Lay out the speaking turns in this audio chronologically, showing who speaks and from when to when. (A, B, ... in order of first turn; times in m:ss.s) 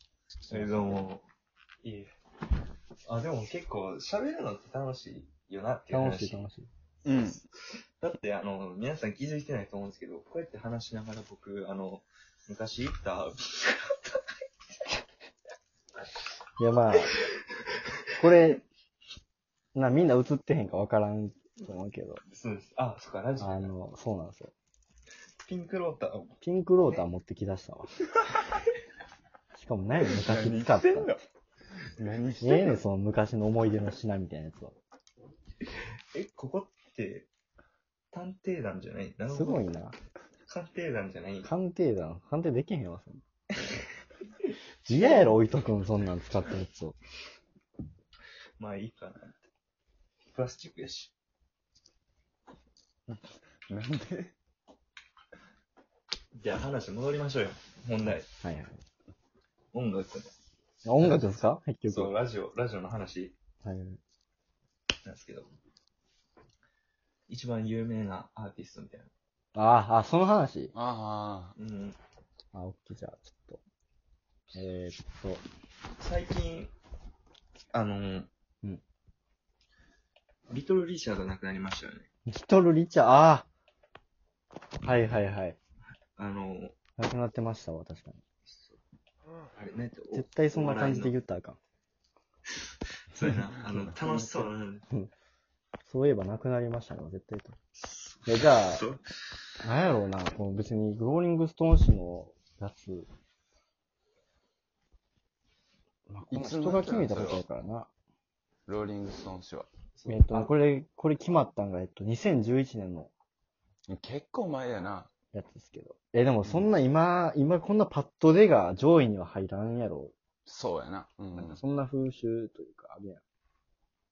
0:00.5-0:01.2 A
0:00.5-0:00.9 B
0:01.8-0:02.1 A
0:03.1-0:06.5 A
0:05.9-0:06.7 B
0:07.0-0:07.4 C
0:07.2-0:14.2 A
0:16.6-0:17.1 B
0:16.9-0:17.3 A
0:18.2-0:18.6 B
0:19.7-0:22.2 B
0:22.3-0:23.7 A
0:23.4-0:24.5 B
0:25.4-0:26.4 A
0:26.4-0:28.0 B
0:29.5-0:31.2 B
0:30.2-0:31.2 C
0:32.0-0:32.8 C
0:32.4-0:34.8 B
0:36.1-0:37.3 A
0:38.1-0:39.6 A
0:39.3-0:40.0 B
0:40.5-0:41.5 A
0:41.4-0:43.2 B
0:44.9-0:45.5 A
0:44.9-0:47.0 B
0:48.6-0:49.4 A
0:50.3-0:51.1 A
0:53.1-0:54.4 C
0:56.4-0:58.3 A
0:58.4-0:58.8 B
0:59.7-1:00.3 A
1:00.8-1:02.2 B
1:01.0-1:03.4 A
1:03.6-1:04.0 B
1:05.0-1:05.5 A
1:07.3-1:09.1 A
1:09.6-1:10.7 B
1:10.7-1:11.5 C
1:11.6-1:12.0 A
1:12.5-1:13.6 B
1:14.5-1:15.4 B
1:16.0-1:16.7 A
1:17.7-1:18.3 A
1:20.5-1:22.1 A
1:22.3-1:23.5 B
1:24.8-1:25.6 B
1:26.2-1:26.8 A
1:27.0-1:28.2 B
1:28.5-1:28.8 A
1:29.6-1:31.2 A
1:30.1-1:31.6 B
1:33.1-1:34.9 A
1:34.0-1:35.1 B
1:35.9-1:37.6 B
1:37.8-1:39.0 A
1:38.3-1:38.8 B
1:39.6-1:43.1 B
1:46.1-1:47.9 B
1:46.3-1:47.4 C
1:48.7-1:49.7 C
1:50.0-1:50.6 A
1:50.1-1:53.1 B
1:53.9-1:55.1 C
1:55.3-2:00.1 B
1:56.4-1:56.7 C
2:00.5-2:01.6 C
2:01.3-2:03.2 B